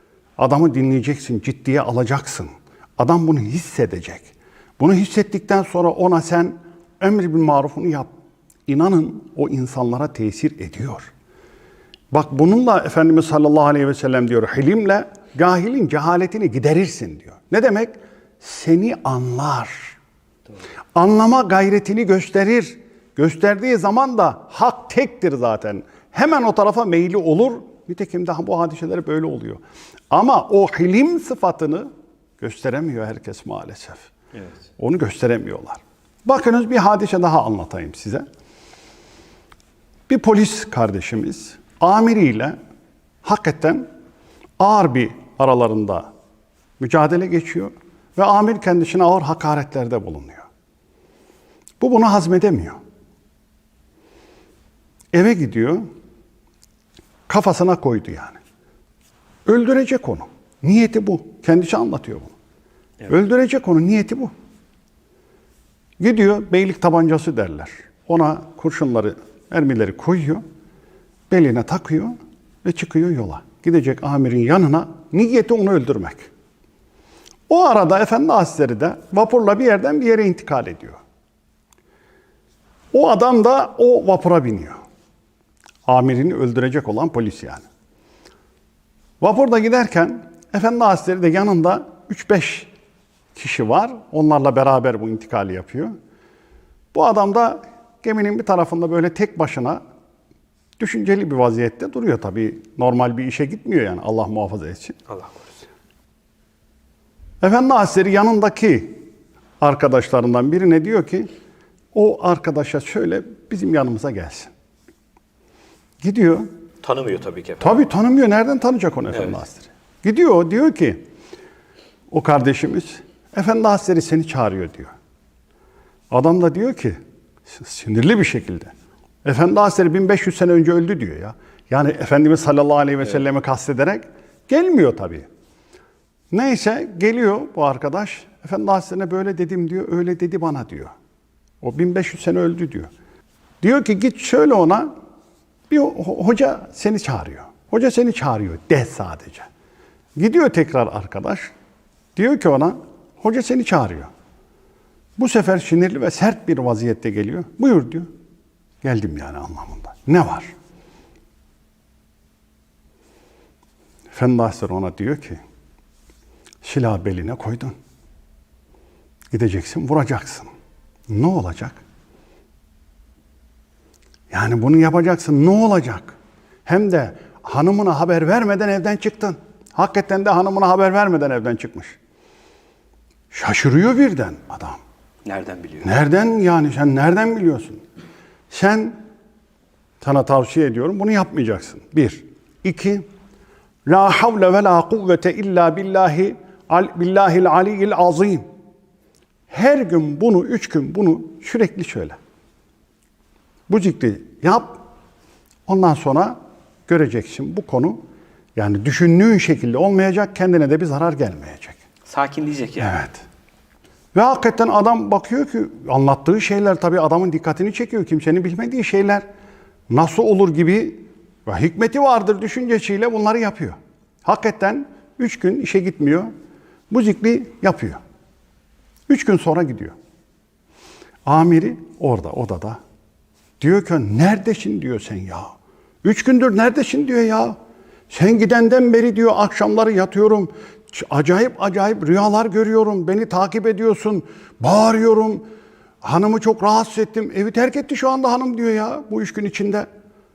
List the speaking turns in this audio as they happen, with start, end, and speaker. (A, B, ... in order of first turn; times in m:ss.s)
0:00.4-0:08.1 A
0:08.7-0:11.1 A
0:12.1-0:20.0 A
0:20.9-0:34.1 A
0:34.8-0:38.2 A
0:40.1-0:42.6 A
0:43.2-0:43.9 A
0:44.6-0:46.1 A
0:46.8-0:50.5 A
0:51.8-0:52.8 A
0:55.1-0:55.9 A
0:57.3-0:58.4 A
0:59.4-1:02.3 A
1:03.1-1:04.3 A
1:06.0-1:10.4 A
1:11.3-1:16.3 A
1:17.5-1:21.0 A
1:22.9-1:24.8 A
1:25.8-1:27.6 A
1:29.2-1:32.7 A
1:33.3-1:35.9 A
1:36.9-1:39.8 A
1:40.8-1:45.0 A
1:45.1-1:45.5 B
1:47.4-1:49.0 A
1:49.6-1:51.3 A
1:51.9-1:54.5 A
1:56.0-1:56.5 A
1:56.8-1:57.8 B
1:57.6-2:01.0 A
1:59.1-1:59.4 B
2:02.1-2:04.9 A
2:06.1-2:08.7 A
2:09.2-2:15.3 A
2:16.3-2:20.9 A
2:21.6-2:22.9 A
2:23.6-2:24.9 A
2:25.7-2:29.5 A
2:30.2-2:31.5 A
2:32.2-2:34.1 A
2:35.2-2:38.1 A
2:38.8-2:40.5 A
2:44.1-2:45.4 A
2:46.6-2:47.7 A
2:49.3-2:50.5 A
2:51.1-2:51.8 A
2:54.3-3:02.0 A
3:03.3-3:04.8 A
3:05.2-3:05.9 B
3:05.8-3:07.8 A
3:08.5-3:09.0 A
3:10.0-3:13.0 A
3:13.8-3:18.4 A
3:19.5-3:22.2 A
3:23.7-3:24.8 A
3:25.7-3:28.0 A
3:28.6-3:31.8 A
3:32.0-3:33.0 B
3:32.8-3:33.2 A
3:34.1-3:39.2 A
3:39.9-3:46.3 A
3:46.9-3:48.0 A
3:49.1-3:49.9 A
3:51.2-3:52.8 A
3:53.6-3:57.6 A
3:58.1-4:05.4 A
4:06.0-4:09.9 A